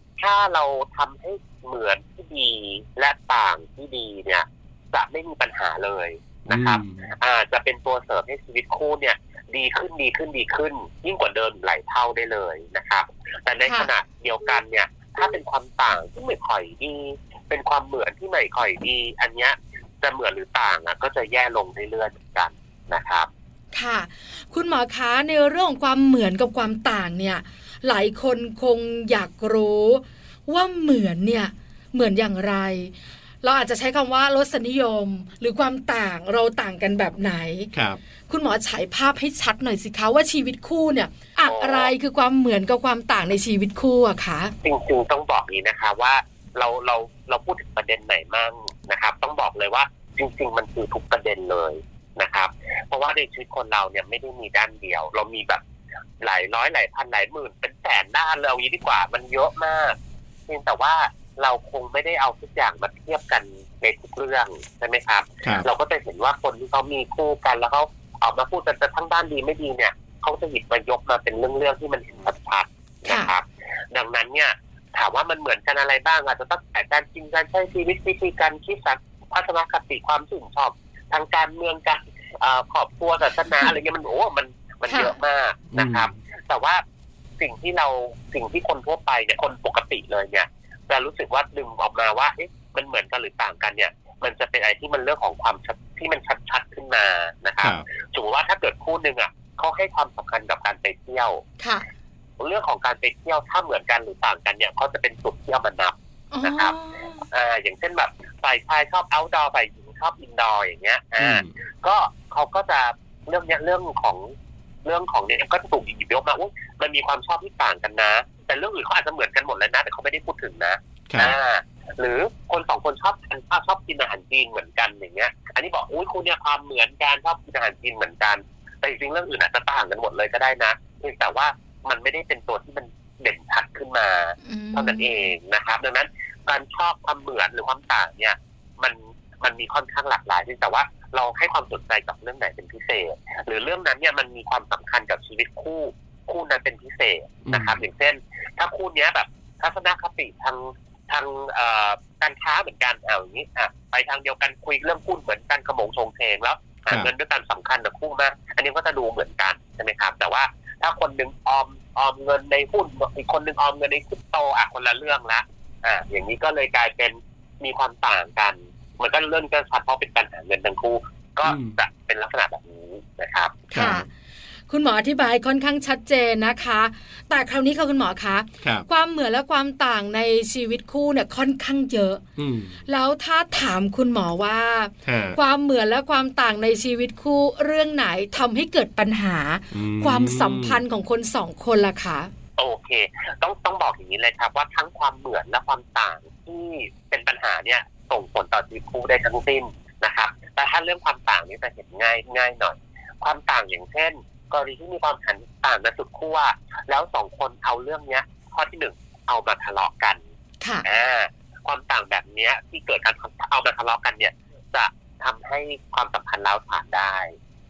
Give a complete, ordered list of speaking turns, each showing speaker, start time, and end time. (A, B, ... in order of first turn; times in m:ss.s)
0:00.2-0:23.3 A
0:06.5-0:07.0 B
0:13.6-0:13.9 C
0:23.7-0:37.7 C
0:37.7-0:38.0 B
0:38.3-0:44.5 C
0:41.4-0:41.9 A
0:44.6-0:55.6 A
0:56.2-1:00.0 A
1:00.5-1:26.8 A
1:13.1-1:13.3 C
1:24.9-1:25.2 C
1:25.7-1:26.1 B
1:27.4-1:41.4 A
1:41.6-1:41.8 C
1:42.4-1:46.7 A
1:46.3-1:47.2 C
1:47.3-1:54.3 A
1:51.2-1:51.5 B
1:54.8-2:53.6 A
2:01.1-2:01.3 B
2:14.4-2:15.3 C
2:27.5-2:27.8 B
2:51.4-2:51.8 B
2:53.7-2:54.1 C
2:53.7-2:54.0 B
2:54.7-3:02.2 C
2:58.6-2:58.9 B
3:02.4-3:02.8 B
3:02.9-3:12.3 C
3:05.0-3:05.4 B
3:09.7-3:10.8 B
3:12.6-3:30.2 A
3:30.8-3:37.3 A